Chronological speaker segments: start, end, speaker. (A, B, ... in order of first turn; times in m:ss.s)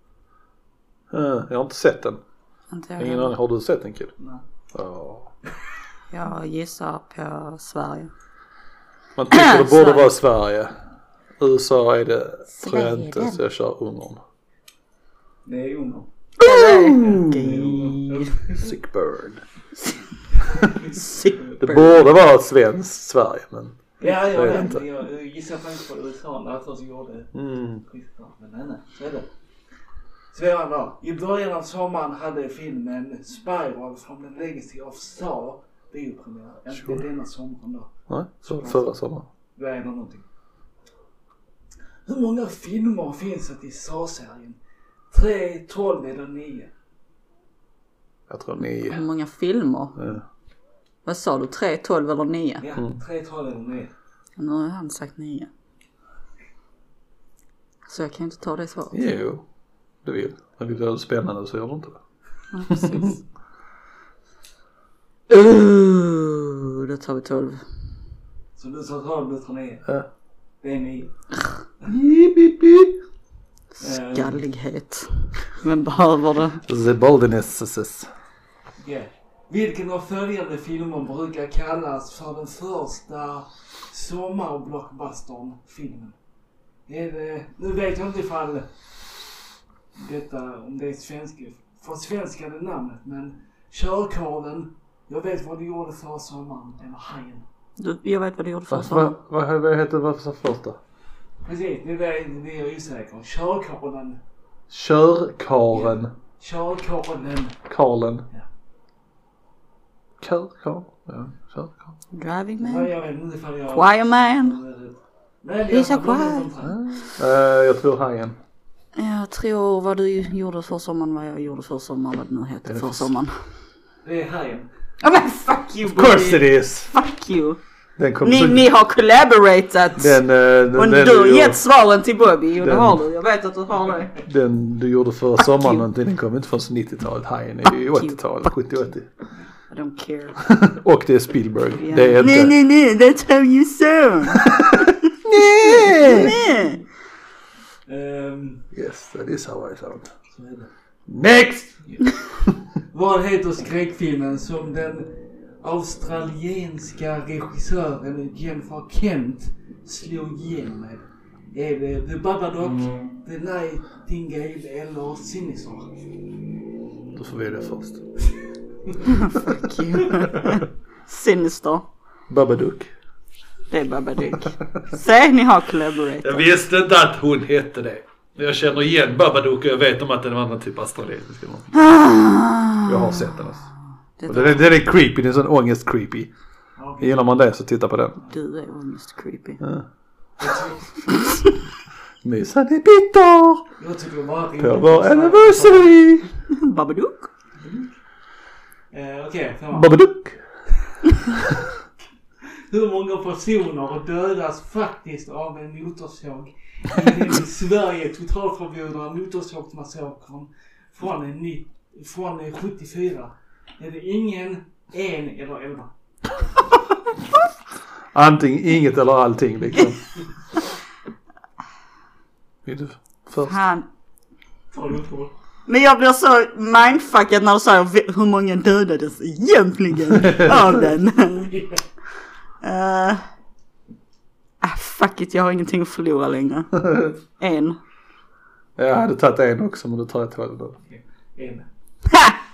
0:01.1-0:02.2 A
0:02.7-0:03.3 B
0:03.0-0:04.1 A
0:04.7-0:05.3 A
0:06.1-0:08.1 B
0:09.2-0:10.7 A
0:09.3-0:10.2 B
0:11.4-0:14.2 A
0:12.5-0:13.4 B
0:15.4-0:16.1 C
0:16.4-0:17.9 A
0:16.4-0:18.3 B
0:17.0-0:18.7 C
0:18.6-0:19.4 A
0:20.4-0:21.5 C
0:20.9-0:22.0 B
0:21.6-0:24.8 A
0:24.0-0:29.3 C
0:27.3-0:27.8 A
0:30.3-0:37.9 C
0:36.7-0:37.0 A
0:38.1-0:39.2 A
0:38.4-0:38.9 C
0:39.6-0:40.2 C
0:42.0-0:44.6 C
0:45.1-0:46.7 C
0:48.3-0:49.0 A
0:48.8-0:50.0 B
0:50.0-0:50.2 A
0:51.0-0:52.6 B
0:52.6-0:53.9 C
0:54.4-0:55.5 B
0:57.8-0:59.1 B
0:58.9-0:59.4 A
1:00.0-1:02.0 A
1:02.5-1:03.2 B
1:02.7-1:03.1 A
1:05.3-1:07.6 B
1:08.6-1:09.8 C
1:10.6-1:11.1 C
1:11.8-1:13.0 A
1:13.8-1:14.4 C
1:13.8-1:16.6 B
1:16.7-1:18.1 A
1:18.8-1:26.2 C
1:26.9-1:28.8 C
1:29.9-1:37.4 C
1:37.8-1:39.1 B
1:38.7-1:40.8 A
1:41.4-1:44.2 C
1:44.7-1:46.1 A
1:45.7-1:47.6 C
1:47.7-1:48.2 A
1:50.2-1:51.9 A
1:52.1-1:52.9 B
1:52.6-1:56.8 C
1:53.7-1:54.6 B
1:55.7-1:56.4 B
1:56.6-1:58.4 A
1:59.0-2:03.3 B
2:02.6-2:03.1 A
2:04.0-2:04.7 C
2:05.0-2:07.6 B
2:05.8-2:06.9 A
2:08.0-2:08.6 A
2:08.2-2:10.2 B
2:10.0-2:11.6 A
2:10.7-2:14.2 B
2:12.6-2:13.0 A
2:14.2-2:19.1 A
2:15.5-2:15.8 B
2:17.8-2:18.2 B
2:19.7-2:20.4 B
2:20.4-2:22.5 A
2:21.8-2:24.5 B
2:24.3-2:26.4 A
2:25.6-2:26.8 B
2:27.9-2:28.6 C
2:28.7-2:30.1 A
2:30.3-2:30.7 C
2:31.1-2:31.8 A
2:31.8-2:32.2 C
2:32.9-2:46.0 C
2:47.1-2:48.0 A
2:49.1-2:51.9 B
2:52.3-2:52.9 A
2:53.7-2:56.4 B
2:56.2-3:01.9 A
3:01.7-3:03.3 B
3:02.8-3:03.7 A
3:04.2-3:04.6 B
3:04.2-3:06.3 A
3:06.8-3:07.3 C
3:07.0-3:08.2 A
3:08.3-3:09.6 B
3:09.6-3:09.8 A
3:10.4-3:11.0 C
3:11.1-3:11.5 B
3:12.2-3:13.6 A
3:13.8-3:15.9 C
3:14.6-3:16.3 A
3:16.5-3:17.3 B
3:17.6-3:17.9 C
3:18.9-3:20.0 C
3:19.7-3:20.4 A
3:22.7-3:35.9 C
3:38.1-3:40.0 A
3:42.6-3:43.6 A
3:43.4-3:43.8 B
3:44.7-3:45.3 C
3:45.7-3:51.5 B
3:51.4-3:51.8 C
3:52.6-3:53.2 B
3:54.6-3:57.8 B
3:56.8-3:57.1 A
3:58.8-4:00.8 A
4:00.9-4:01.7 C
4:02.1-4:02.3 B